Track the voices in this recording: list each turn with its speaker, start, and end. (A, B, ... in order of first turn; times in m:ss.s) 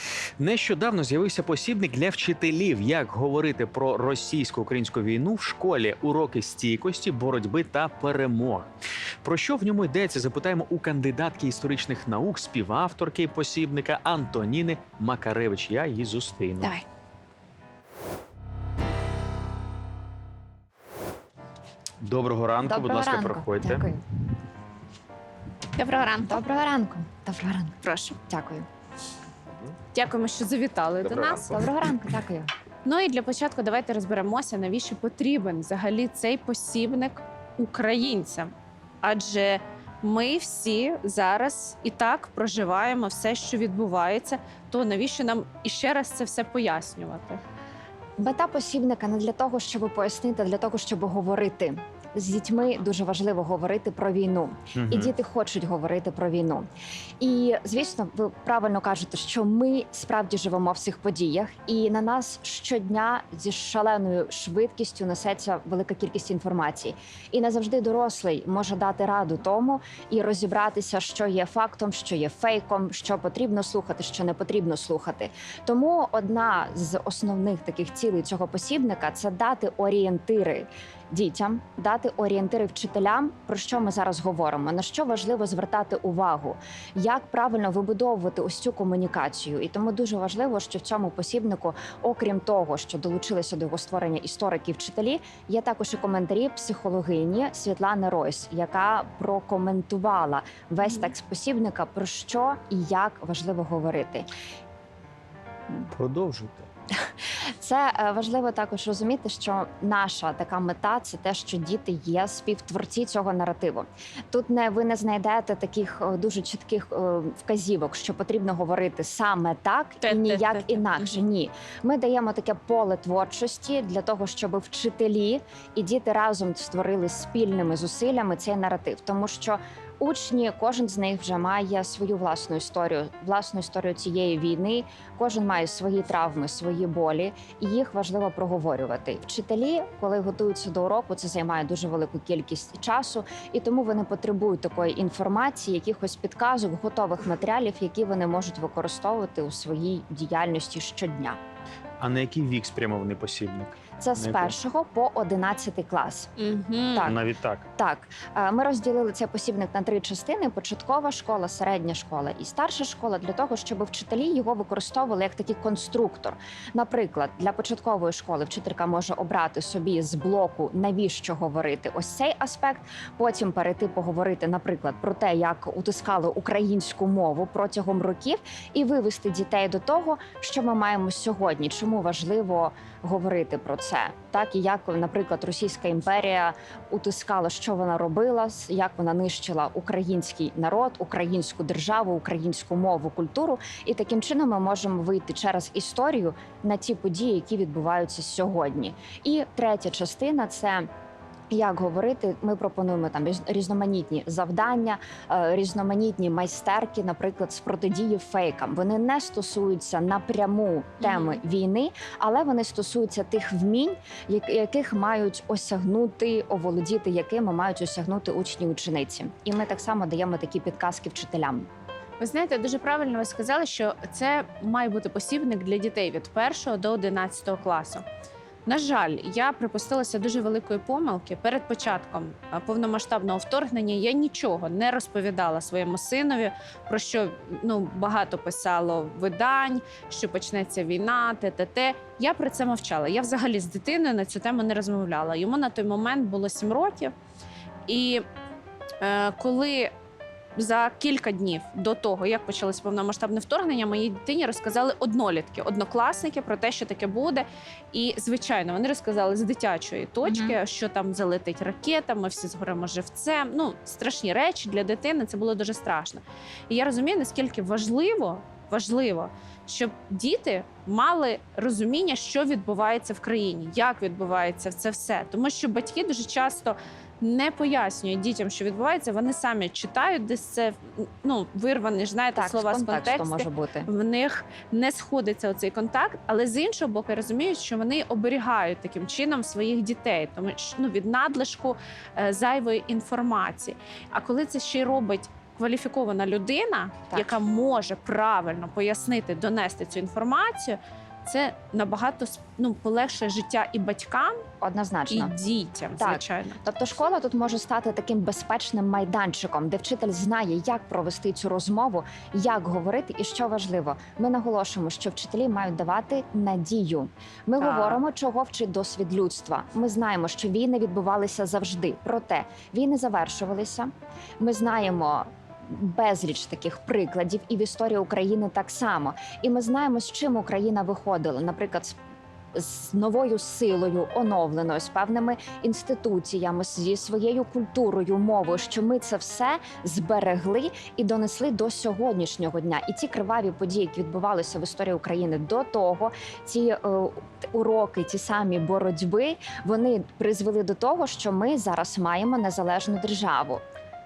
0:00.4-0:08.7 A
0:09.2-0:16.8 A
0:22.0-0:23.8 A
0:22.6-0:24.0 B
0:25.8-0:26.4 C
0:26.2-0:28.7 B
0:27.8-0:28.2 C
0:29.9-0:31.6 C
0:31.0-0:31.6 A
0:31.5-0:32.5 B
0:32.8-0:38.5 C
0:39.0-0:47.4 C
0:48.2-0:56.7 B
0:54.8-0:55.1 A
0:57.2-1:44.3 B
1:40.8-1:41.1 C
1:45.9-1:46.7 A
1:47.4-2:31.4 B
2:00.0-2:01.2 C
2:32.0-2:34.6 A
2:34.0-2:36.3 B
2:36.4-2:37.1 C
2:36.9-2:37.2 B
2:37.0-2:37.6 A
2:37.8-3:20.9 B
3:21.5-3:41.7 B
3:31.0-3:31.4 C
3:42.2-3:48.0 C
3:48.7-4:07.1 C
4:07.9-4:08.2 C
4:09.0-4:09.9 C
4:10.6-5:04.4 C
4:20.2-4:20.6 B
4:42.4-4:43.9 B
5:04.6-5:05.4 B
5:05.1-5:06.6 C
5:06.0-5:32.0 B
5:17.6-5:18.0 C
5:32.5-5:53.6 B